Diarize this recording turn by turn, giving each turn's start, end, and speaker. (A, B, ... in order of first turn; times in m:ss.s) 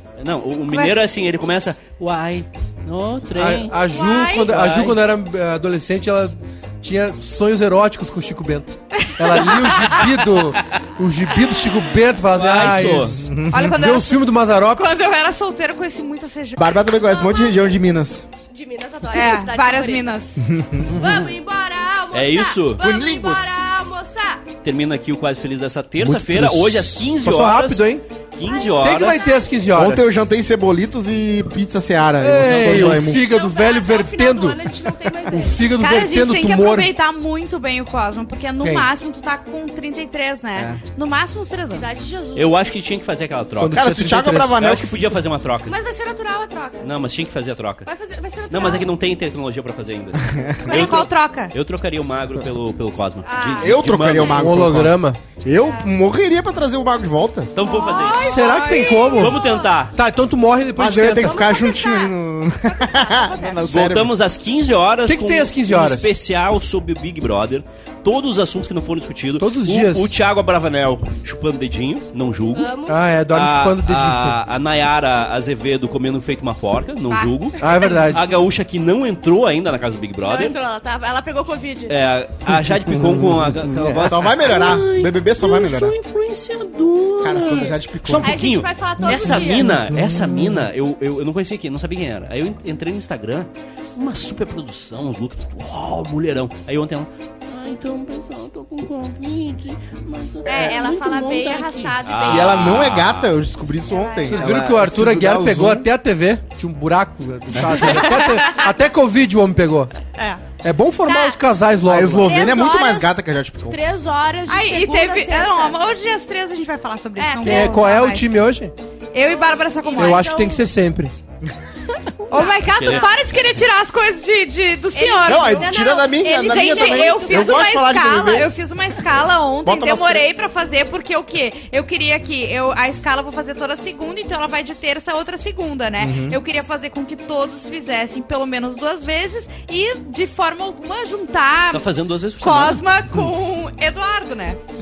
0:00.2-0:03.8 A
0:00.7-0:01.0 B
0:03.4-0:15.0 C
0:03.9-0:05.0 D
0:09.0-0:10.0 B
0:12.3-0:13.2 A
0:13.0-0:13.8 E
0:13.5-0:14.2 B
0:14.8-0:16.7 B
0:16.6-0:18.2 E
0:17.3-0:17.6 D
0:18.5-0:20.2 D
0:19.1-0:20.4 B
0:20.4-0:21.2 E
0:20.9-0:24.4 D
0:22.1-0:22.8 A
0:22.8-0:23.6 E
0:24.6-0:29.2 A
0:26.0-0:28.0 C
0:28.4-0:29.5 D
0:28.8-0:30.1 C
0:29.7-0:33.3 E
0:32.2-0:36.9 C
0:32.6-0:35.7 D
0:35.8-0:42.0 B
0:38.6-0:38.9 C
0:40.6-0:40.8 E
0:41.7-0:42.6 D
0:42.4-0:44.0 A
0:43.6-0:44.6 C
0:43.7-0:45.0 E
0:44.5-0:45.8 A
0:45.7-0:46.9 D
0:46.8-0:47.9 A
0:47.9-0:48.9 D
0:48.5-0:54.5 A
0:50.2-0:50.6 E
0:50.7-0:51.1 D
0:50.7-0:51.5 B
0:53.2-0:54.3 B
0:53.6-0:57.5 E
0:54.3-0:55.2 C
0:57.5-0:58.6 A
0:57.6-0:59.7 D
0:57.6-0:59.4 B
0:58.2-0:59.4 C
0:59.2-1:00.0 A
0:59.9-1:01.5 C
1:00.8-1:04.1 E
1:01.2-1:03.7 D
1:03.7-1:12.7 A
1:05.1-1:06.1 C
1:09.4-1:10.1 C
1:12.5-1:13.0 D
1:12.9-1:14.4 C
1:13.3-1:20.6 A
1:17.1-1:17.5 B
1:17.6-1:18.3 C
1:17.6-1:18.0 D
1:20.2-1:22.0 D
1:21.9-1:43.4 A
1:22.6-1:26.0 E
1:27.2-1:28.4 E
1:28.2-1:29.8 D
1:29.1-1:29.4 B
1:29.2-1:30.7 C
1:40.5-1:42.8 D
1:42.3-1:45.9 E
1:43.9-1:44.8 D
1:44.2-1:49.9 C
1:47.6-1:47.9 E
1:48.1-1:48.6 B
1:50.2-1:50.4 B
1:50.6-1:52.6 C
1:51.0-1:51.4 D
1:51.8-1:53.8 E
1:52.2-1:55.8 D
1:54.5-1:58.3 B
1:57.2-1:57.8 D
1:57.4-1:58.7 C
1:59.1-2:00.4 B
1:59.2-2:00.7 D
2:00.0-2:01.1 C
2:02.3-2:21.9 B
2:02.3-2:03.2 D
2:02.6-2:03.1 A
2:05.0-2:07.6 D
2:05.2-2:08.5 E
2:09.6-2:10.3 E
2:16.0-2:16.4 E
2:21.7-2:22.8 A
2:22.4-2:24.6 B